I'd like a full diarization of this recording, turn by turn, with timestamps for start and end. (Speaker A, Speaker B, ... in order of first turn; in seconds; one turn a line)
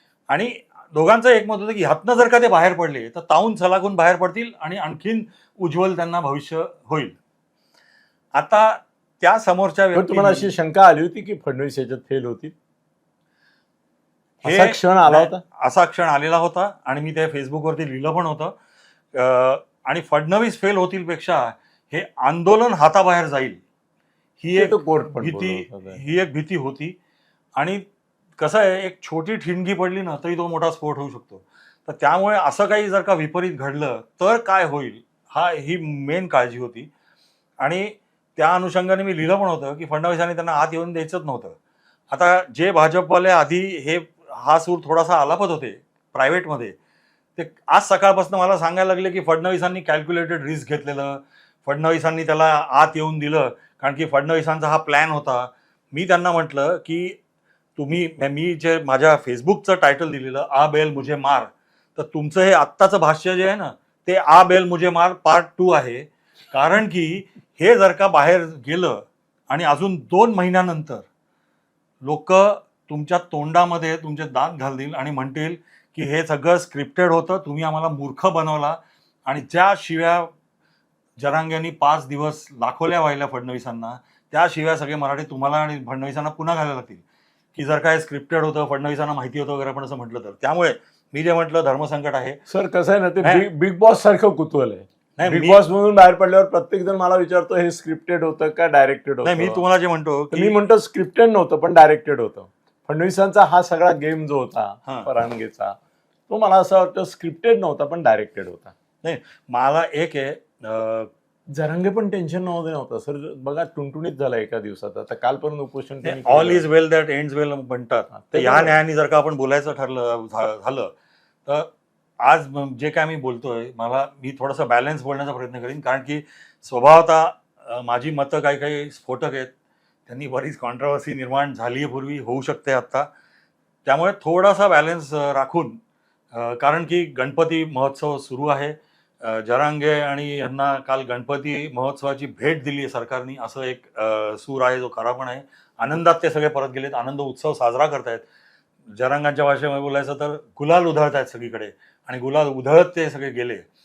Speaker A: 0.3-7.2
Speaker A: 8.3-10.5
Speaker B: 9.9-12.5
Speaker B: 14.4-15.4
Speaker A: 14.4-18.6
Speaker A: 19.1-23.6
Speaker A: 24.4-27.0
Speaker B: 24.5-26.0
Speaker A: 27.6-27.9
Speaker A: 28.4-36.9
Speaker A: 37.6-41.6
Speaker A: 42.1-46.8
Speaker A: 47.4-57.2
Speaker A: 57.8-71.1
Speaker A: 72.0-80.3
Speaker A: 81.2-87.0
Speaker A: 87.5-92.4
Speaker B: 92.5-99.6
Speaker A: 95.2-95.6
Speaker A: 99.2-100.5
Speaker B: 100.3-105.8
Speaker B: 106.3-108.8
Speaker A: 109.0-111.1
Speaker B: 111.5-116.7
Speaker A: 116.0-120.9
Speaker B: 118.1-118.8
Speaker A: 122.2-129.5
Speaker A: 130.1-133.1
Speaker A: 133.8-135.8
Speaker A: 136.3-148.2
Speaker A: 148.9-153.7